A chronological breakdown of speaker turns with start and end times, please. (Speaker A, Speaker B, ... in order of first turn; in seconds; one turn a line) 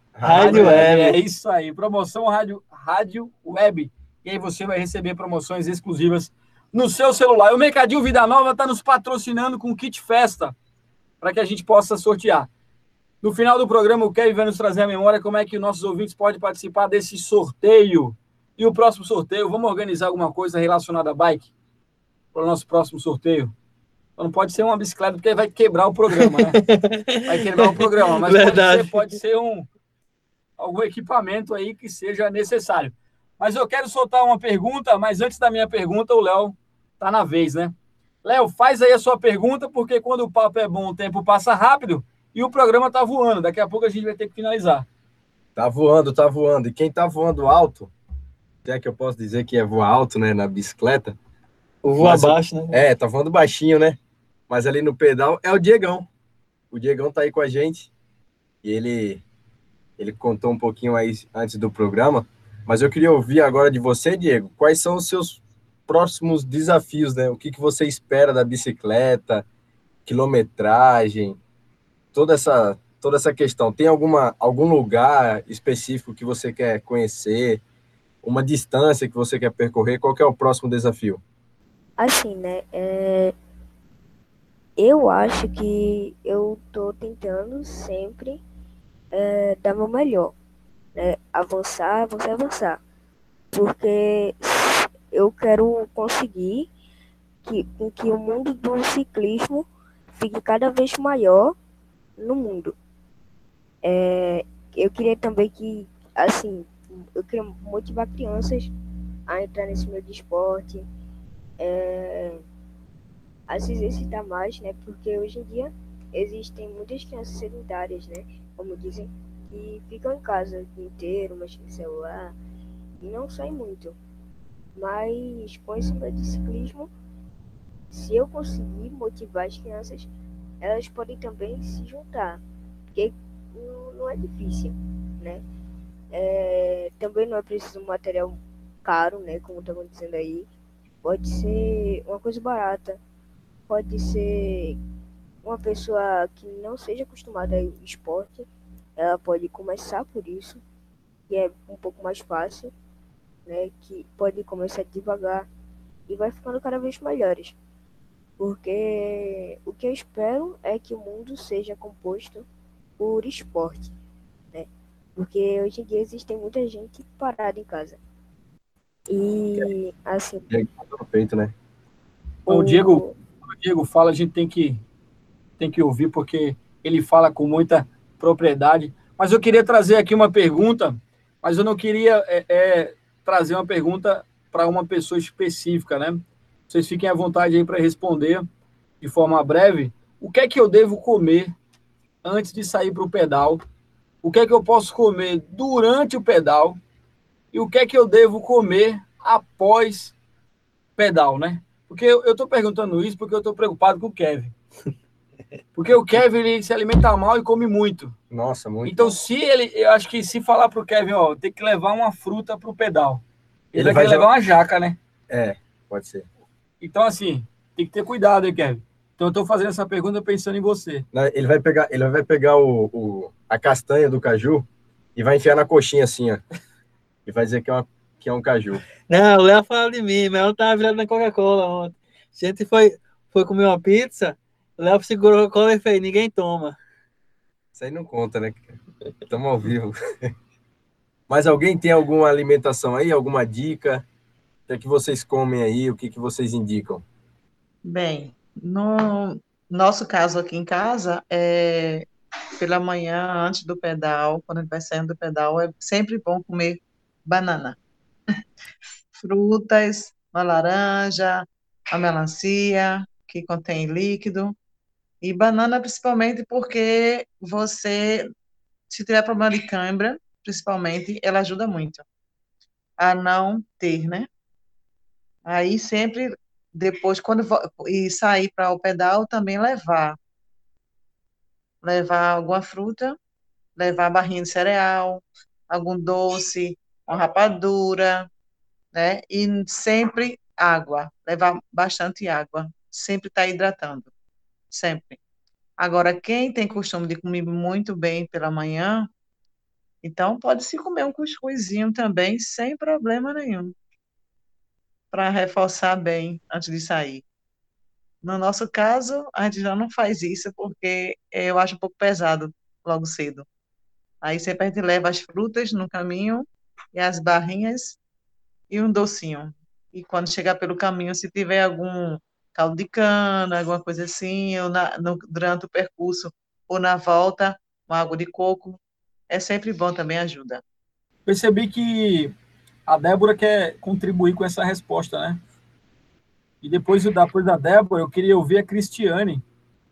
Speaker A: 0.1-1.1
Speaker B: 0.2-1.2
Speaker C: 0.2-10.5
Speaker C: 11.2-12.5
Speaker C: 13.2-21.5
Speaker C: 22.3-23.5
Speaker C: 24.2-26.6
Speaker B: 26.1-29.1
Speaker C: 27.3-29.7
Speaker C: 30.6-44.9
Speaker A: 45.5-47.9
Speaker A: 48.6-51.1
Speaker B: 51.8-52.8
Speaker A: 52.0-54.0
Speaker A: 54.5-56.1
Speaker A: 56.7-57.9
Speaker A: 58.6-59.2
Speaker A: 60.0-69.4
Speaker A: 70.0-71.4
Speaker A: 72.1-77.6
Speaker A: 78.2-81.2
Speaker D: 82.0-83.3
Speaker D: 84.8-88.4
Speaker D: 89.1-90.3
Speaker D: 91.0-92.8
Speaker D: 93.5-96.7
Speaker D: 97.4-101.5
Speaker D: 102.2-102.7
Speaker D: 103.8-108.7
Speaker D: 109.3-110.9
Speaker D: 111.6-112.4
Speaker D: 113.5-122.3
Speaker D: 123.0-124.0
Speaker D: 124.8-126.9
Speaker D: 127.9-130.1
Speaker D: 130.6-132.4
Speaker D: 132.9-135.4
Speaker D: 136.1-140.5
Speaker D: 141.0-143.0
Speaker D: 143.7-144.8
Speaker D: 145.4-150.6
Speaker D: 151.3-152.7
Speaker D: 153.5-155.5
Speaker D: 156.1-157.6
Speaker D: 158.4-162.4
Speaker D: 163.0-163.9
Speaker D: 164.5-168.0
Speaker D: 169.1-170.5
Speaker A: 170.5-171.5
Speaker D: 172.5-173.2
Speaker C: 172.5-174.8
Speaker C: 175.6-188.4
Speaker C: 189.0-191.5
Speaker C: 192.2-193.6
Speaker C: 194.2-196.8
Speaker C: 197.5-200.1
Speaker C: 201.0-204.5
Speaker C: 205.7-208.2
Speaker A: 208.3-209.2
Speaker C: 208.8-213.2
Speaker A: 213.7-214.3
Speaker C: 213.7-215.0
Speaker A: 215.3-216.3
Speaker C: 216.8-221.1
Speaker A: 221.1-226.4
Speaker A: 227.2-228.8
Speaker B: 229.1-236.8
Speaker A: 237.7-239.9
Speaker A: 241.3-244.1
Speaker A: 244.7-247.0
Speaker E: 247.8-257.8
Speaker E: 259.1-264.6
Speaker E: 265.2-268.3
Speaker E: 268.9-272.0
Speaker E: 273.0-274.3
Speaker E: 275.5-280.2
Speaker E: 281.8-283.2
Speaker E: 283.8-288.3
Speaker E: 288.9-294.1
Speaker E: 294.7-295.2
Speaker E: 295.8-299.1
Speaker E: 300.0-303.7
Speaker E: 305.1-307.2
Speaker E: 308.2-313.4
Speaker E: 314.2-318.0
Speaker E: 318.7-330.6
Speaker C: 331.2-332.3
Speaker C: 332.9-335.4
Speaker C: 336.6-339.4